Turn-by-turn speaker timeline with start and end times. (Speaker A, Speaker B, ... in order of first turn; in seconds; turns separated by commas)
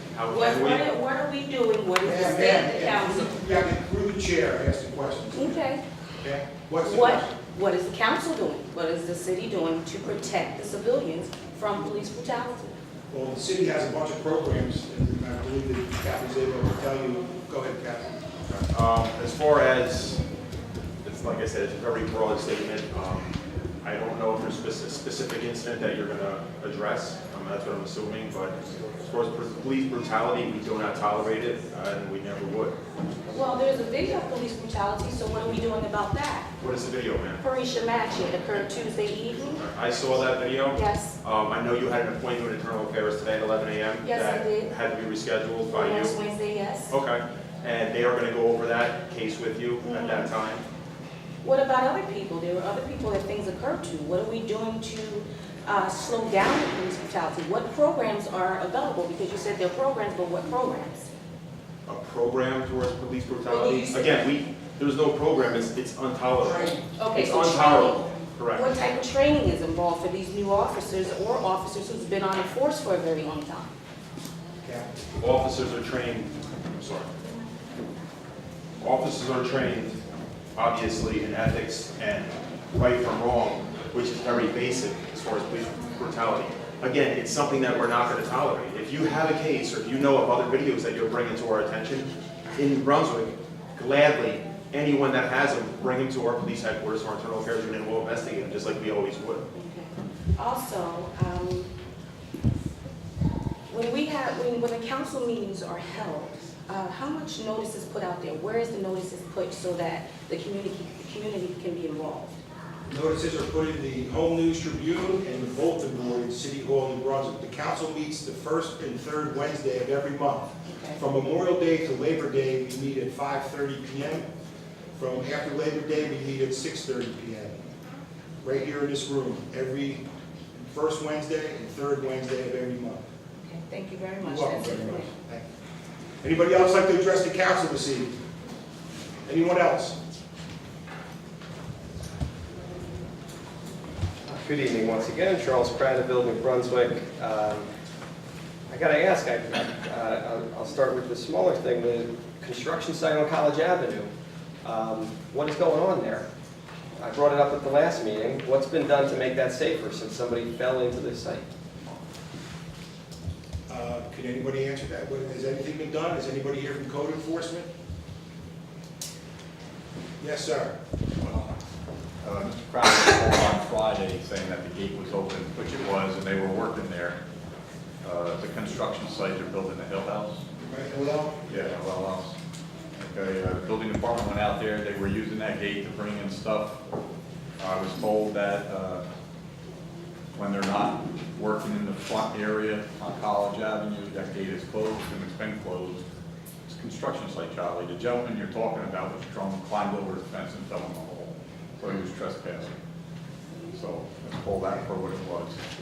Speaker A: 0.1-0.8, Speaker B: 0.3-3.4, Speaker C: 2.0-5.6, Speaker B: 5.3-5.8, Speaker C: 6.2-7.3, Speaker B: 6.8-12.8, Speaker C: 13.1-18.1, Speaker A: 18.5-20.2, Speaker A: 21.0-32.8, Speaker B: 33.3-36.5, Speaker A: 36.6-37.4, Speaker B: 37.4-39.6, Speaker A: 39.7-46.1, Speaker B: 40.7-41.2, Speaker B: 44.0-44.7, Speaker B: 45.7-47.0, Speaker A: 46.9-50.6, Speaker B: 49.8-50.3, Speaker B: 51.4-61.1, Speaker A: 61.9-68.7, Speaker B: 63.5-64.2, Speaker B: 67.0-73.7, Speaker C: 74.6-75.0, Speaker A: 75.2-77.1, Speaker A: 78.8-80.0, Speaker A: 80.6-99.4, Speaker B: 99.5-101.7, Speaker B: 103.7-112.3, Speaker C: 112.9-124.3, Speaker B: 120.7-121.0, Speaker C: 125.0-127.6, Speaker C: 128.4-130.1, Speaker C: 130.7-133.1, Speaker B: 133.4-135.1, Speaker C: 134.2-135.5, Speaker C: 136.2-138.1, Speaker C: 139.3-140.0, Speaker D: 144.2-147.7, Speaker D: 148.7-154.1, Speaker D: 154.6-156.3, Speaker D: 157.0-161.5, Speaker C: 163.7-167.7, Speaker C: 170.2-170.7, Speaker E: 171.2-171.5, Speaker E: 172.2-177.2, Speaker E: 178.0-180.4, Speaker C: 180.6-181.7, Speaker E: 181.5-182.3, Speaker E: 182.9-186.8, Speaker E: 187.6-189.0, Speaker E: 190.3-196.0, Speaker E: 196.7-202.8, Speaker E: 203.7-205.6